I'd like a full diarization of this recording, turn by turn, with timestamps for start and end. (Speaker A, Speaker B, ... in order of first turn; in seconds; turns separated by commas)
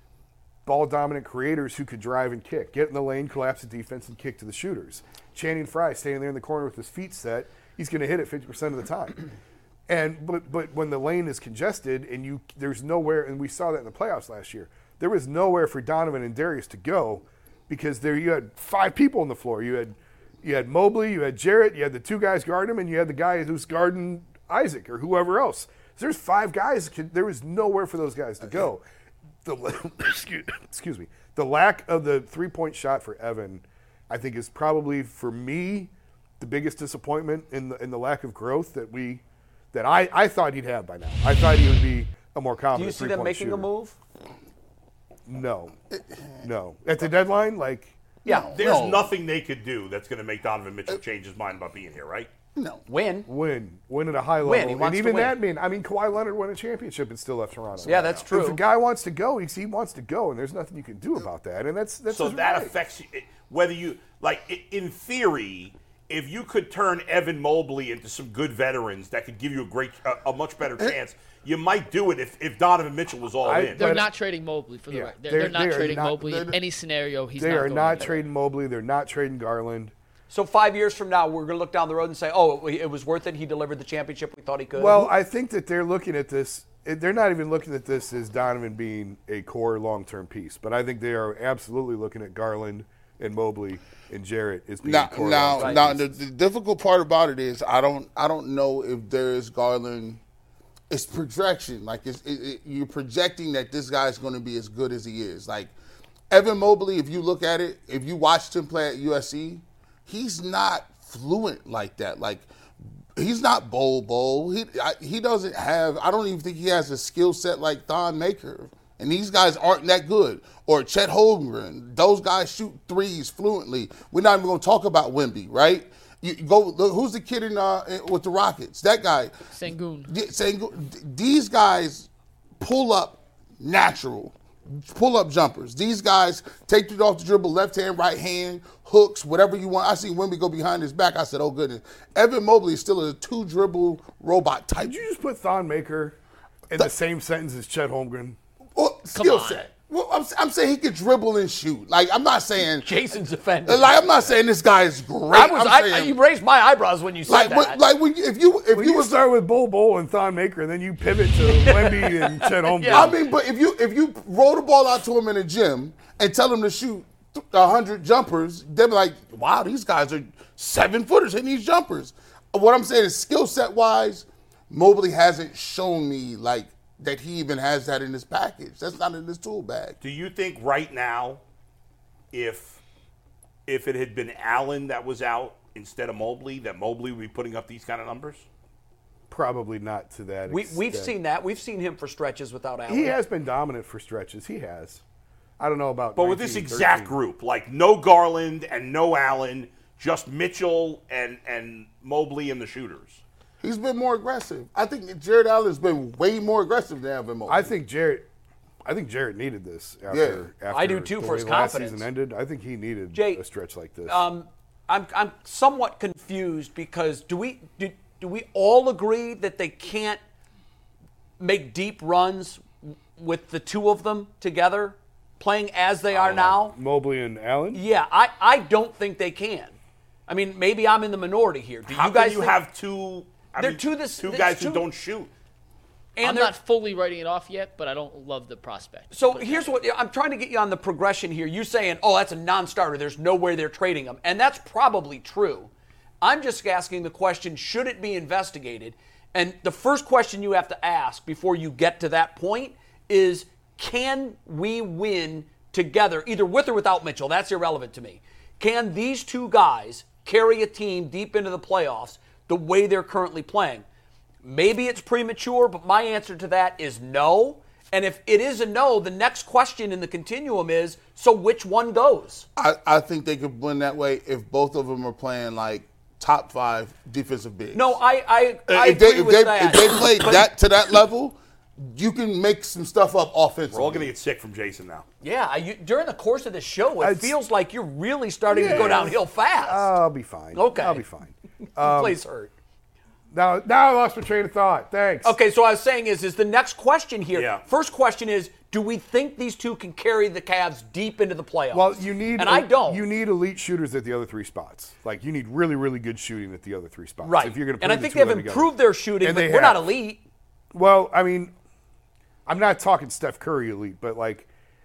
Speaker A: 0.7-9.2, Speaker A: 9.9-28.8, Speaker A: 29.4-39.2, Speaker A: 39.7-43.7, Speaker B: 42.7-44.0, Speaker A: 45.2-45.7, Speaker C: 45.9-46.5, Speaker A: 46.4-48.0, Speaker C: 48.2-49.1, Speaker D: 48.5-52.3, Speaker C: 52.5-52.8, Speaker B: 52.9-53.3, Speaker A: 53.3-62.8, Speaker B: 54.4-55.4, Speaker D: 57.8-58.2, Speaker B: 57.8-58.6, Speaker D: 62.1-73.9, Speaker A: 73.4-74.1, Speaker E: 73.5-78.2, Speaker A: 74.9-76.2, Speaker C: 76.2-76.6, Speaker A: 77.4-79.9, Speaker B: 80.3-85.1, Speaker A: 84.8-96.2, Speaker C: 94.8-100.2, Speaker B: 95.6-95.8, Speaker C: 100.9-105.7, Speaker C: 106.3-112.5, Speaker C: 113.2-129.3, Speaker E: 129.5-130.1, Speaker C: 130.1-132.1, Speaker C: 132.6-145.0, Speaker A: 144.8-146.2, Speaker A: 146.7-148.4, Speaker C: 148.8-153.0, Speaker E: 149.1-149.6, Speaker B: 152.6-154.0, Speaker C: 153.7-156.2, Speaker B: 155.3-157.8, Speaker C: 157.2-159.2, Speaker A: 158.7-163.2, Speaker B: 161.4-163.1, Speaker C: 162.9-180.0, Speaker D: 180.0-181.4, Speaker D: 182.3-182.8, Speaker D: 183.7-188.4, Speaker A: 189.3-191.1, Speaker B: 190.5-193.2, Speaker A: 192.9-195.0, Speaker A: 195.6-197.2, Speaker D: 196.2-203.2, Speaker C: 203.6-207.7, Speaker A: 207.5-208.3, Speaker A: 208.8-214.2, Speaker C: 210.1-210.4, Speaker B: 210.7-212.1, Speaker B: 213.1-213.4, Speaker B: 214.1-220.2, Speaker B: 221.4-226.8, Speaker A: 226.1-227.8, Speaker B: 227.7-229.7, Speaker B: 230.3-232.6, Speaker D: 231.9-235.3, Speaker B: 233.6-234.8, Speaker B: 236.2-236.5, Speaker E: 236.2-239.8, Speaker B: 239.1-245.7, Speaker B: 246.2-263.8, Speaker B: 264.4-272.4, Speaker C: 272.6-278.0, Speaker B: 277.7-280.5, Speaker C: 278.7-284.1, Speaker D: 283.7-285.0, Speaker B: 285.2-289.9, Speaker A: 287.0-287.4, Speaker A: 288.5-292.2, Speaker D: 288.6-289.1, Speaker B: 290.5-291.0, Speaker B: 291.8-292.5, Speaker A: 293.3-295.3, Speaker B: 295.2-303.0, Speaker D: 297.3-297.6, Speaker A: 301.7-309.9, Speaker B: 307.2-310.2, Speaker A: 310.7-311.5, Speaker A: 312.4-314.5